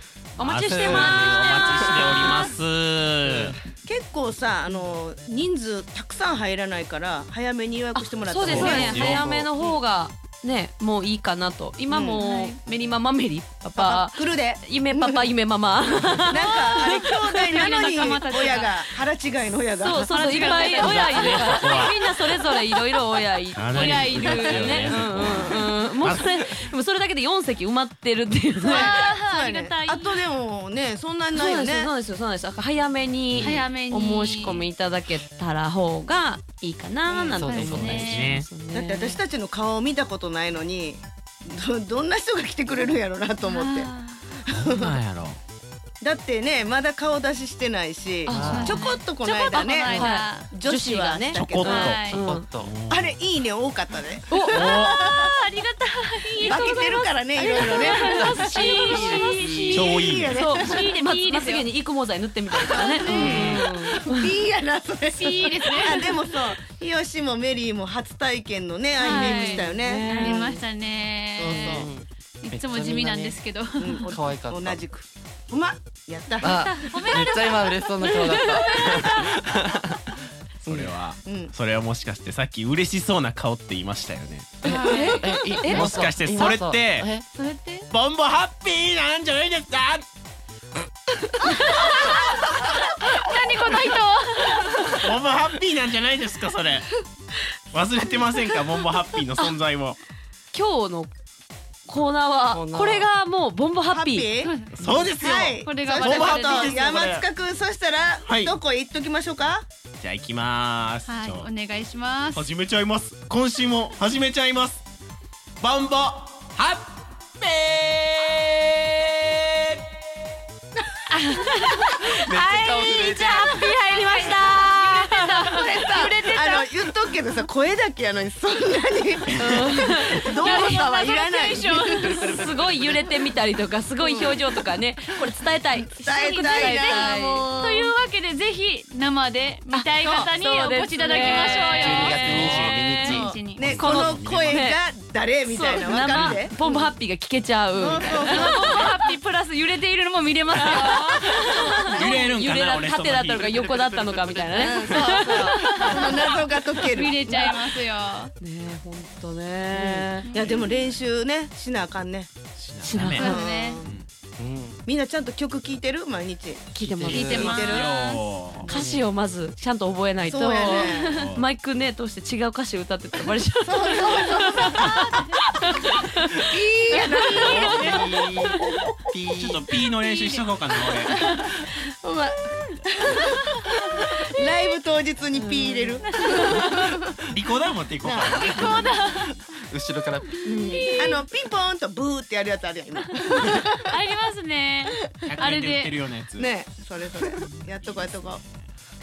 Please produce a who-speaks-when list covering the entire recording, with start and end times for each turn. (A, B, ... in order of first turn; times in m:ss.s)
0:00.4-0:02.4 A
0:00.4-0:03.6 B
0:00.7-0:02.4 C
0:03.3-0:03.5 C
0:03.8-0:09.2 D
0:08.0-0:18.6 A
0:08.4-0:09.2 B
0:08.4-0:09.5 C
0:11.9-0:12.2 D
0:12.2-0:12.6 E
0:13.8-0:15.3 D
0:16.3-0:20.8 D
0:17.5-0:18.8 E
0:19.8-0:29.1 A
0:20.1-0:21.6 E
0:20.8-0:22.5 B
0:23.5-0:26.5 B
0:23.7-0:25.7 E
0:28.6-0:30.2 E
0:28.7-0:31.9 D
0:31.3-0:39.2 A
0:33.4-0:34.7 E
0:37.1-0:37.5 D
0:37.3-0:38.2 E
0:37.4-0:38.2 C
0:38.0-0:38.5 B
0:38.7-0:43.9 D
0:43.4-0:44.2 E
0:44.5-0:45.0 D
0:44.5-0:45.4 B
0:46.0-0:51.9 D
0:48.3-0:48.8 A
0:48.3-0:48.8 C
0:48.5-0:50.5 E
0:49.8-0:52.5 A
0:51.3-0:53.2 B
0:51.7-0:52.2 E
0:52.1-0:52.7 C
0:52.9-0:55.3 D
0:54.3-0:54.7 A
0:54.5-0:54.9 B
0:54.7-0:59.6 E
0:56.4-1:00.8 D
0:57.6-1:04.4 A
0:59.4-1:00.7 B
1:00.7-1:01.7 E
1:02.6-1:10.6 D
1:03.1-1:03.7 B
1:05.1-1:06.2 E
1:09.0-1:11.9 E
1:09.0-1:10.6 A
1:11.4-1:11.9 D
1:11.4-1:13.4 C
1:12.4-1:14.1 E
1:13.8-1:16.6 D
1:14.0-1:14.8 C
1:16.4-1:20.0 C
1:16.5-1:19.3 E
1:20.6-1:20.9 C
1:20.6-1:24.7 B
1:21.2-1:21.5 D
1:24.6-1:27.2 C
1:24.6-1:25.9 A
1:24.9-1:25.6 E
1:25.7-1:27.2 B
1:27.3-1:27.9 E
1:27.9-1:30.0 B
1:31.4-1:34.6 E
1:34.6-1:36.9 B
1:37.7-1:40.0 B
1:40.5-1:41.1 A
1:41.9-1:44.3 A
1:42.5-1:43.1 C
1:43.9-1:49.6 D
1:44.4-1:44.8 E
1:44.7-1:47.3 B
1:45.6-1:46.9 E
1:48.3-1:48.6 B
1:50.0-1:51.5 B
1:51.1-1:52.5 E
1:52.4-1:54.8 B
1:55.6-1:59.8 B
2:00.8-2:01.3 D
2:01.1-2:06.7 E
2:02.2-2:05.2 A
2:02.3-2:03.5 C
2:04.0-2:13.1 D
2:09.4-2:10.8 A
2:10.4-2:12.4 E
2:12.2-2:17.5 A
2:14.0-2:14.5 D
2:15.9-2:17.9 D
2:16.1-2:23.7 E
2:19.7-2:22.9 A
2:20.0-2:20.3 D
2:21.3-2:23.3 C
2:22.1-2:22.7 B
2:22.9-2:26.9 D
2:23.7-2:24.6 B
2:23.8-2:24.8 A
2:25.5-2:29.0 A
2:26.1-2:26.4 B
2:27.8-2:28.8 D
2:28.1-2:32.2 E
2:30.6-2:36.4 A
2:31.2-2:34.2 B
2:34.5-2:37.7 D
2:35.5-2:36.0 E
2:36.9-2:38.3 E
2:38.4-2:40.3 A
2:39.7-2:42.3 D
2:40.2-2:40.7 E
2:42.6-2:44.1 B
2:42.8-2:43.3 A
2:43.2-2:43.9 D
2:43.2-2:43.8 E
2:44.4-2:44.8 C
2:44.9-2:47.9 D
2:46.8-2:47.6 A
2:46.8-2:47.6 C
2:47.2-2:48.3 E
2:47.6-2:48.9 B
2:48.6-2:49.0 D
2:48.7-2:56.5 A
2:50.2-2:51.2 D
2:50.6-2:51.3 E
2:51.2-2:51.5 B
2:53.6-2:55.0 D
2:54.9-2:55.4 E
2:56.5-2:58.1 D
2:57.2-2:57.6 A
2:57.4-2:58.1 B
2:57.5-2:57.9 E
2:57.6-2:59.7 C
2:59.4-3:01.2 B
3:00.1-3:00.4 E
3:01.1-3:01.5 E
3:01.8-3:03.6 D
3:04.2-3:07.0 D
3:05.4-3:06.0 A
3:06.1-3:07.0 E
3:07.2-3:08.9 B
3:08.0-3:08.9 D
3:08.4-3:09.4 E
3:08.5-3:10.3 C
3:10.4-3:11.2 E
3:10.4-3:11.2 A
3:11.0-3:13.9 D
3:13.3-3:16.0 E
3:15.3-3:16.5 B
3:16.4-3:18.4 D
3:17.3-3:18.6 B